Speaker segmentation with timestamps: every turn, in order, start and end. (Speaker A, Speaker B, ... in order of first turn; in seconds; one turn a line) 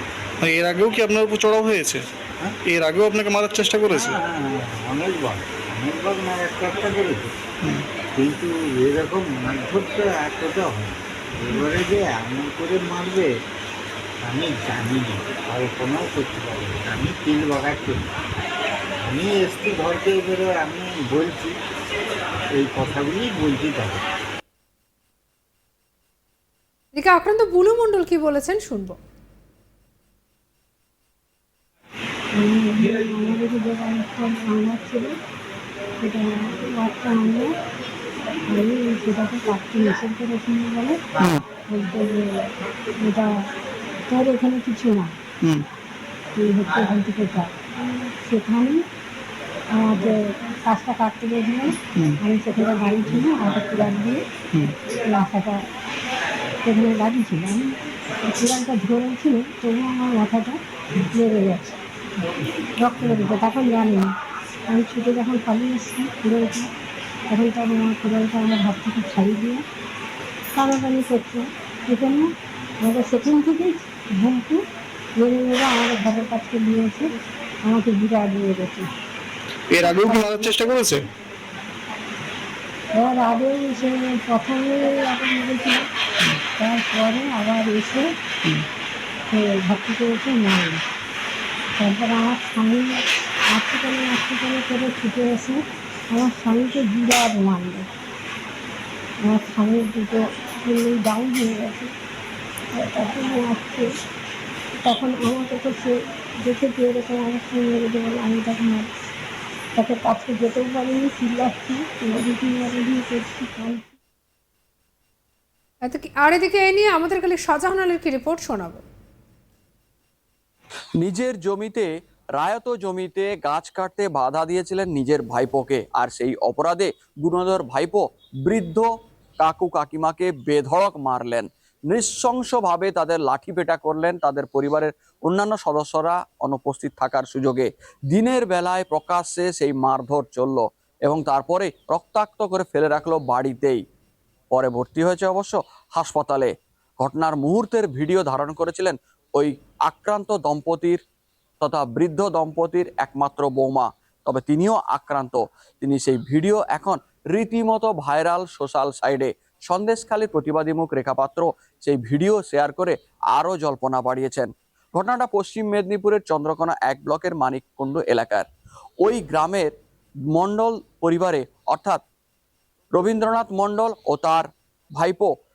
Speaker A: 0.4-2.0
Speaker A: 2.6-4.2
Speaker B: 3.9-7.3
Speaker B: 8.2-13.3
Speaker B: 14.2-18.1
Speaker B: 19.0-21.6
Speaker B: 22.6-24.0
Speaker C: 26.9-29.0
Speaker D: 32.4-35.1
Speaker D: 36.0-37.5
Speaker D: 38.5-41.0
Speaker A: 41.2-41.4
Speaker D: 41.7-43.3
Speaker D: 44.1-45.1
Speaker D: 46.4-48.8
Speaker D: 49.8-54.2
Speaker D: 55.1-55.6
Speaker D: 56.6-57.7
Speaker D: 58.2-60.6
Speaker D: 61.1-61.7
Speaker D: 62.9-64.1
Speaker D: 64.7-66.7
Speaker D: 67.3-69.6
Speaker D: 70.6-72.3
Speaker D: 72.8-74.6
Speaker D: 75.2-77.1
Speaker D: 77.7-78.9
Speaker A: 79.7-81.0
Speaker D: 79.9-80.6
Speaker D: 83.0-85.9
Speaker D: 86.6-88.1
Speaker D: 89.3-90.8
Speaker D: 91.8-97.9
Speaker D: 99.3-101.9
Speaker D: 102.8-103.9
Speaker D: 104.8-108.9
Speaker D: 109.8-114.0
Speaker C: 115.8-118.8
Speaker E: 121.0-128.9
Speaker E: 129.4-143.8
Speaker E: 144.5-151.0
Speaker E: 151.6-168.5
Speaker E: 169.0-169.7
Speaker E: 170.3-172.0
Speaker E: 172.9-175.3